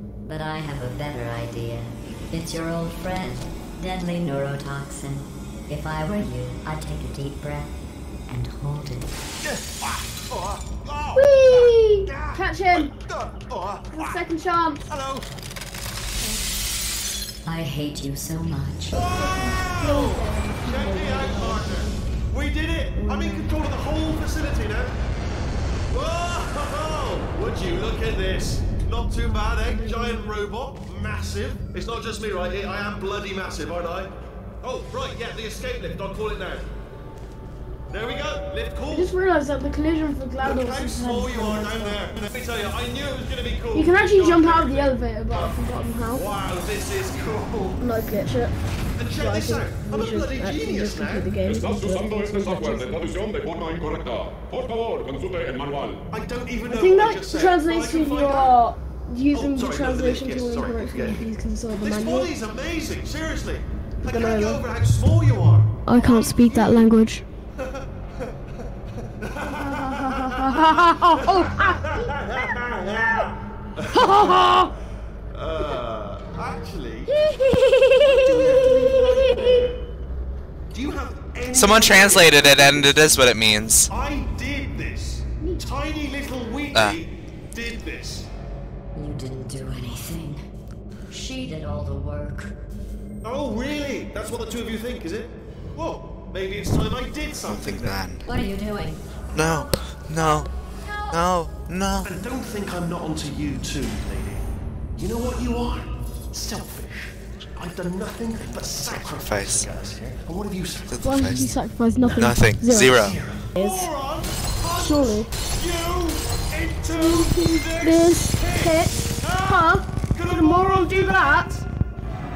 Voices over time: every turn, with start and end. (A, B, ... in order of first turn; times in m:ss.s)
0:00.2-0:07.7 A
0:08.3-0:09.2 A
0:09.4-0:14.2 B
0:11.1-0:12.9 C
0:13.9-0:14.8 C
0:14.9-0:15.3 B
0:17.4-0:19.0 A
0:18.9-0:25.0 B
0:19.0-0:22.0 C
0:22.9-0:23.6 C
0:25.9-0:36.7 B
0:29.6-0:30.3 C
0:37.9-0:39.1 B
0:38.9-0:42.0 C
0:40.4-0:45.6 B
0:43.7-0:46.4 C
0:46.1-0:47.9 B
0:47.8-0:48.6 C
0:49.0-0:51.3 B
0:49.1-0:53.0 C
0:51.5-0:56.0 D
0:56.1-0:58.5 B
0:56.6-1:02.3 C
0:59.3-1:01.2 B
1:01.8-1:06.9 B
1:04.0-1:04.7 C
1:05.8-1:07.2 C
1:07.6-1:07.9 B
1:09.2-1:10.4 B
1:09.5-1:12.1 C
1:11.1-1:14.6 B
1:13.9-1:14.7 C
1:15.3-1:17.1 B
1:17.1-1:19.7 C
1:18.0-1:19.8 B
1:20.7-1:23.2 B
1:21.5-1:23.9 E
1:23.9-1:28.3 B
1:25.4-1:25.7 C
1:28.9-1:30.4 A
1:31.1-1:32.6 A
1:33.2-1:38.0 B
1:37.4-1:38.2 E
1:38.2-1:39.0 A
1:39.3-1:40.5 E
1:41.1-1:42.1 E
1:42.0-1:44.4 B
1:45.0-1:51.0 B
1:49.1-1:49.7 E
1:50.9-1:51.5 E
1:51.0-1:53.9 C
1:52.0-2:01.6 B
1:52.2-1:53.2 E
1:54.7-1:55.3 C
1:56.9-2:01.6 C